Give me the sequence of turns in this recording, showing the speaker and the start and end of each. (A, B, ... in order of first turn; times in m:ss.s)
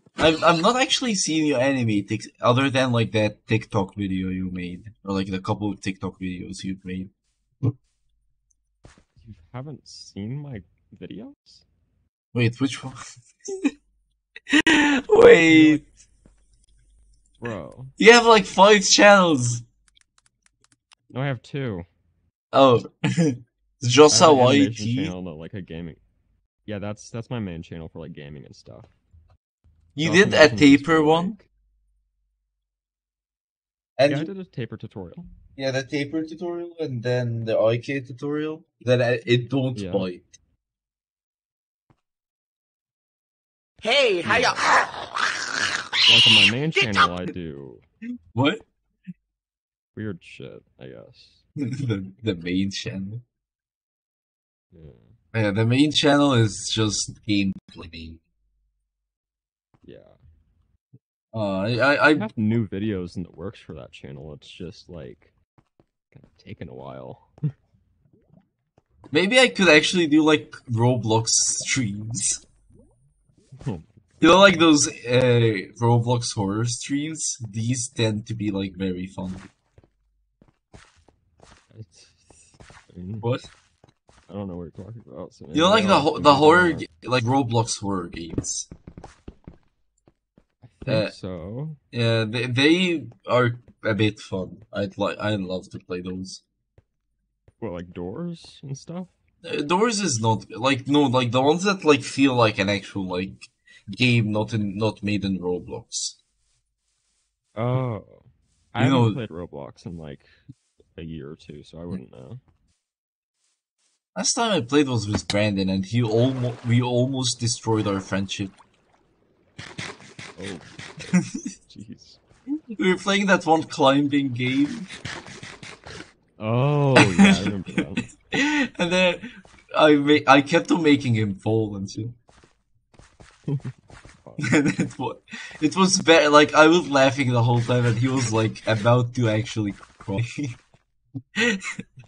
0:00.2-0:07.1 A
0:09.2-0:11.6 B
0:12.3-0:13.7 A
0:14.5-0:15.8 A
0:15.4-0:15.9 B
0:17.4-0:17.9 B
0:18.0-0:19.6 A
0:21.1-0:21.9 B
0:22.5-0:25.1 A
0:24.1-0:26.0 B
0:26.6-0:28.9 B
0:30.0-0:31.4 A
0:30.0-0:31.5 B
0:34.0-0:34.3 A
0:34.0-0:35.3 B
0:35.6-0:40.4 A
0:39.8-0:40.1 B
0:43.8-0:45.0 C
0:44.2-0:44.7 B
0:46.1-0:47.8 B
0:46.2-0:47.1 C
0:48.3-0:48.6 A
0:49.9-0:51.4 B
0:51.6-0:53.2 A
0:54.7-0:55.1 B
0:55.3-0:58.2 A
0:59.8-1:00.2 B
1:01.3-1:02.3 A
1:02.2-1:05.3 B
1:06.1-1:07.3 B
1:09.1-1:12.4 A
1:13.6-1:14.0 B
1:14.2-1:19.5 A
1:21.7-1:23.3 B
1:23.2-1:23.5 A
1:24.3-1:26.9 B
1:25.5-1:28.7 A
1:30.6-1:31.8 B
1:30.9-1:31.1 A
1:31.9-1:36.4 A
1:37.6-1:39.1 B
1:39.4-1:46.2 A
1:47.6-1:50.3 B
1:48.8-1:49.2 A
1:51.0-1:52.4 B
1:54.2-1:58.6 A
2:00.4-2:02.2 B
2:01.1-2:01.5 A
2:02.8-2:04.9 A
2:06.4-2:08.1 B
2:07.0-2:12.2 A
2:13.5-2:14.5 B
2:14.4-2:20.6 A
2:21.4-2:21.6 A